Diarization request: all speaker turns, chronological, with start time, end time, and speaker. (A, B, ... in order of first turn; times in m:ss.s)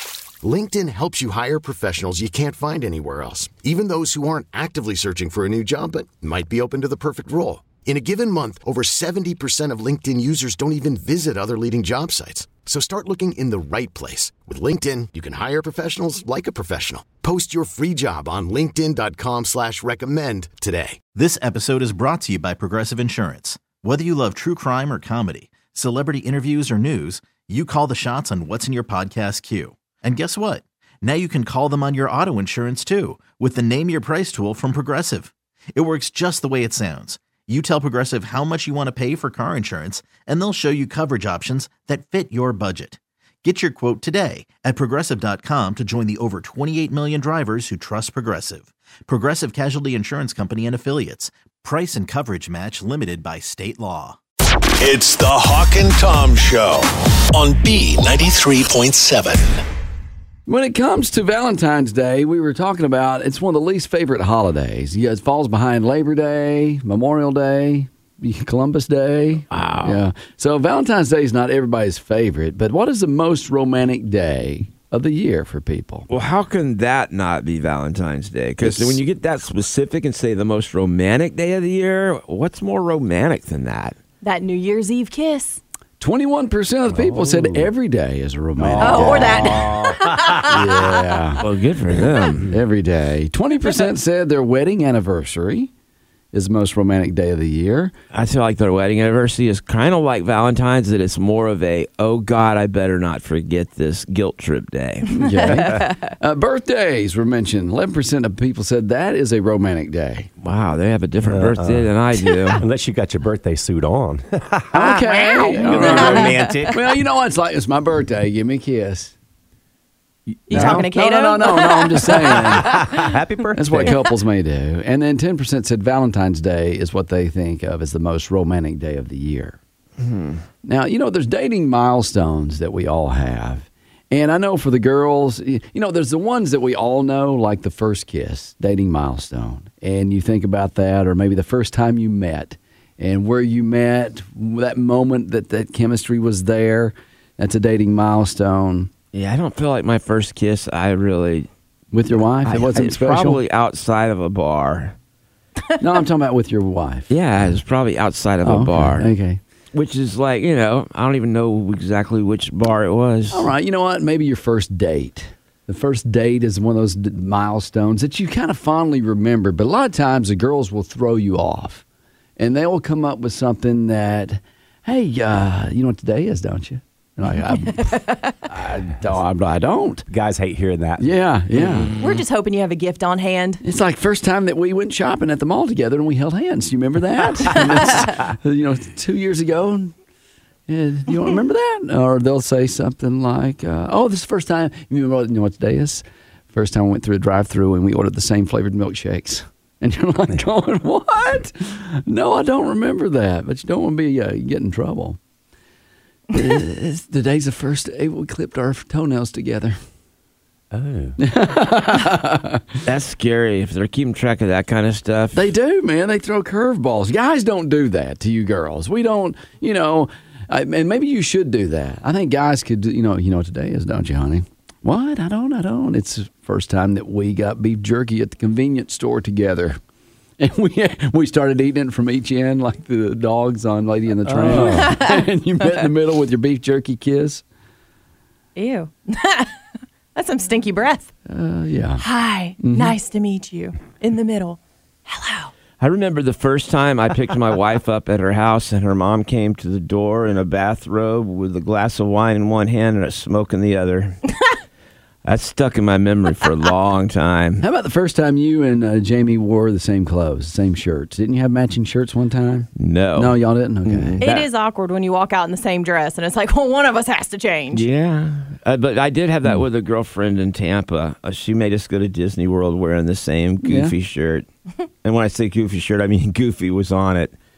0:00.4-0:21.1 A
0:21.1-0:54.2 B
0:54.8-0:59.6 C
1:00.5-1:16.0 D
1:09.5-1:10.0 E
1:16.1-1:23.9 E
1:18.6-1:19.0 D
1:24.2-1:25.6 F
1:26.0-1:29.6 D
1:26.9-1:27.7 G
1:28.6-1:31.2 G
1:28.8-1:30.6 F
1:30.5-1:31.4 D
1:31.4-1:32.5 E
1:32.5-1:35.7 D
1:36.3-1:37.9 D
1:38.1-1:45.1 E
1:45.2-1:50.3 D
1:45.3-1:45.9 F
1:45.5-1:45.8 G
1:50.4-1:52.6 E
1:51.2-1:51.9 G
1:52.5-1:56.8 G
1:54.8-1:59.1 D
1:54.8-1:56.7 F
2:00.3-2:00.9 G
2:00.5-2:03.0 F
2:00.5-2:02.9 D
2:02.4-2:04.0 G
2:03.6-2:09.6 D
2:10.0-2:10.4 E
2:10.6-2:28.9 D
2:29.1-2:31.5 E
2:31.9-2:33.4 D
2:32.4-2:34.9 E
2:35.8-2:37.5 D
2:37.1-2:39.1 E
2:38.4-2:39.4 D
2:39.7-2:43.5 E
2:43.3-2:51.8 D
2:52.4-3:00.1 D
2:57.7-2:58.4 F
3:00.1-3:01.2 G
3:01.0-3:01.9 D
3:01.6-3:02.2 E
3:02.0-3:03.6 F
3:03.6-3:09.9 D
3:10.7-3:25.2 D
3:26.3-3:29.8 D
3:30.7-3:31.2 G
3:31.2-3:32.8 D
3:32.8-3:35.4 E
3:35.3-3:49.8 D
3:50.4-3:57.4 D
3:54.3-3:55.0 G
3:58.6-3:59.6 F
4:00.1-4:01.1 F
4:01.3-4:02.0 D
4:02.0-4:05.5 F
4:02.6-4:03.0 D
4:05.8-4:14.2 E
4:15.2-4:17.6 E
4:17.6-4:24.5 D
4:22.8-4:24.2 E
4:24.2-4:27.9 F
4:27.7-4:34.5 E
4:33.6-4:33.9 D
4:35.0-4:37.3 E